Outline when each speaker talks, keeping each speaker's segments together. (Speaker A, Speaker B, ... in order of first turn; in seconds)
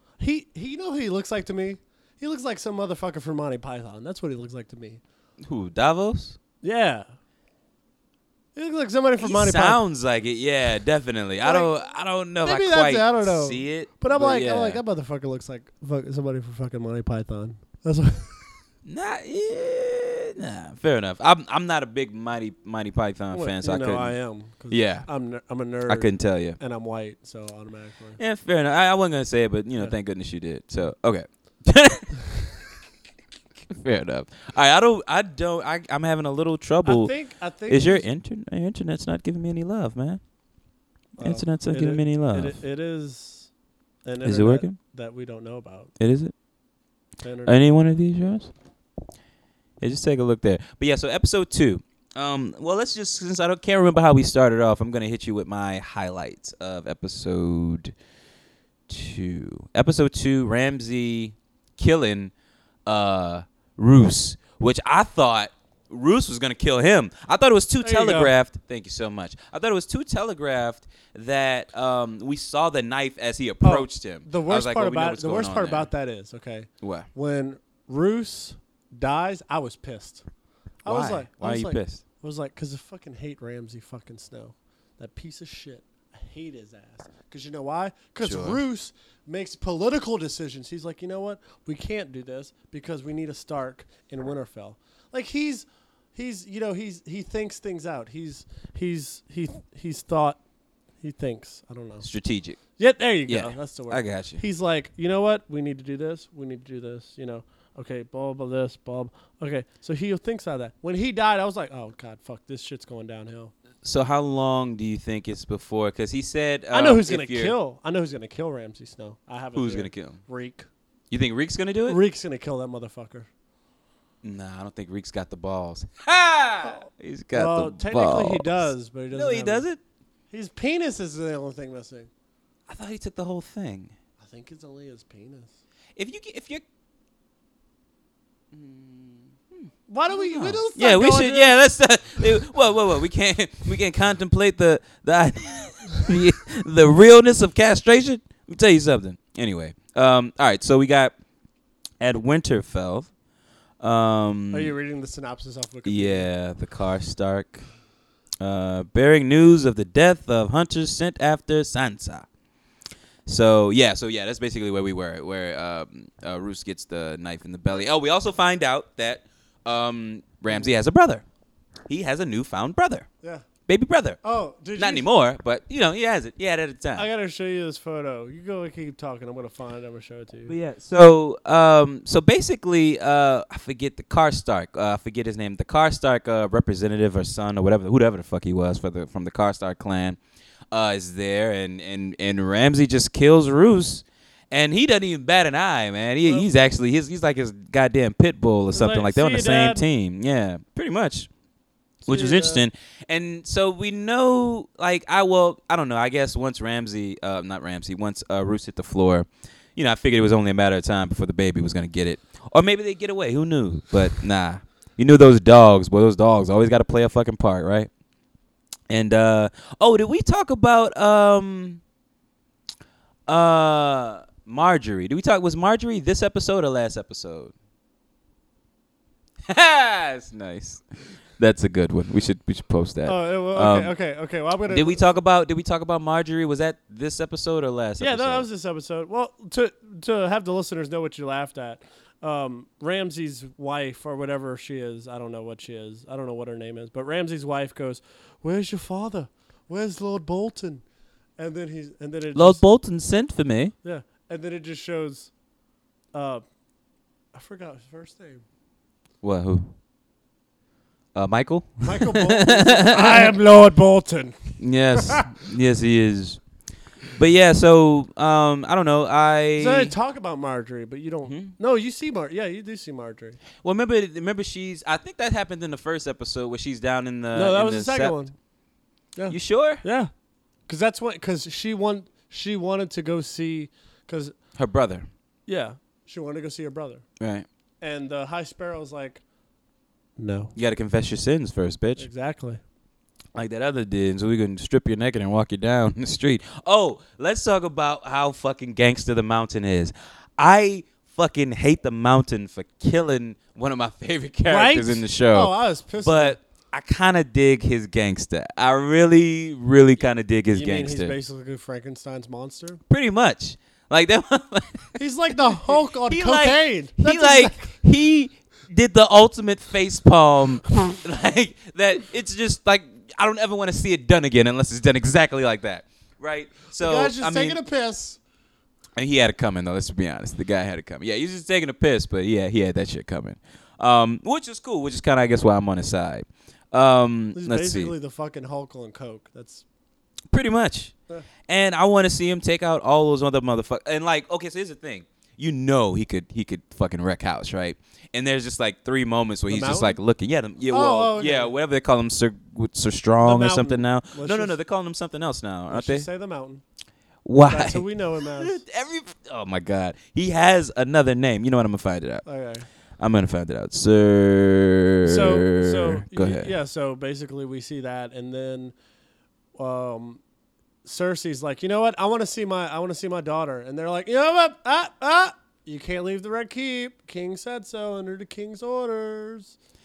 Speaker A: 0.2-5.0, 6.6-7.1, 8.5-9.8, 11.4-11.7, 12.4-18.5, 23.3-28.2, 36.8-38.0, 41.2-43.5, 44.0-45.9, 47.2-47.6, 67.8-68.3, 73.6-80.2, 80.8-100.4, 101.0-102.0, 102.8-113.5, 116.7-120.7, 121.9-123.3, 126.6-129.6, 130.3-132.1, 134.2-135.6, 139.9-141.6, 154.5-156.3, 174.2-175.1, 176.9-180.5, 198.7-199.8, 202.1-202.6, 233.1-235.0, 238.0-250.8, 251.4-252.6, 253.8-255.3, 256.1-256.4, 257.3-258.4, 261.8-265.3, 269.6-273.4, 277.3-278.3, 279.1-280.1, 280.7-284.4, 285.5-287.0, 287.8-289.2, 290.2-290.5, 292.0-292.6, 304.5-306.4, 310.5-312.8, 315.0-317.7, 326.8-328.2, 337.3-339.6, 349.5-350.0, 350.7-351.5, 353.2-354.6, 355.7-356.6, 357.5-358.6, 362.2-362.6, 365.0-368.7, 369.5-370.2, 370.8-379.5
Speaker B: 5.4-6.4, 9.2-14.8, 18.8-24.1, 24.7-25.1, 25.9-26.6, 28.2-32.2, 33.7-37.1, 37.7-40.2, 41.2-42.6, 44.2-44.8, 46.0-46.3, 47.5-48.5, 49.8-57.9, 58.9-62.3, 62.9-75.9, 76.8-77.1, 80.8-82.0, 88.2-88.6, 102.0-102.6, 103.3-104.4, 113.8-117.5, 119.5-120.2, 121.1-122.0, 124.2-129.8, 132.7-133.9, 135.9-136.6, 138.5-151.1, 152.0-153.1, 153.8-154.7, 155.8-157.6, 158.4-162.2, 163.2-171.2, 171.9-173.1, 173.7-174.2, 174.8-177.1, 180.5-190.2, 190.7-201.3, 202.1-217.9, 218.9-221.8, 223.3-227.5, 229.5-233.9, 234.7-238.4, 252.3-253.7, 259.2-259.7, 261.1-263.3, 264.6-266.4, 267.1-269.9, 271.2-271.5, 273.6-278.2, 279.3-279.8, 284.6-285.1, 287.2-287.4, 290.6-292.1, 293.3-311.1, 312.9-315.0, 315.7-327.6, 329.0-337.9, 340.3-340.9, 341.5-356.1, 357.2-362.2, 363.0-366.5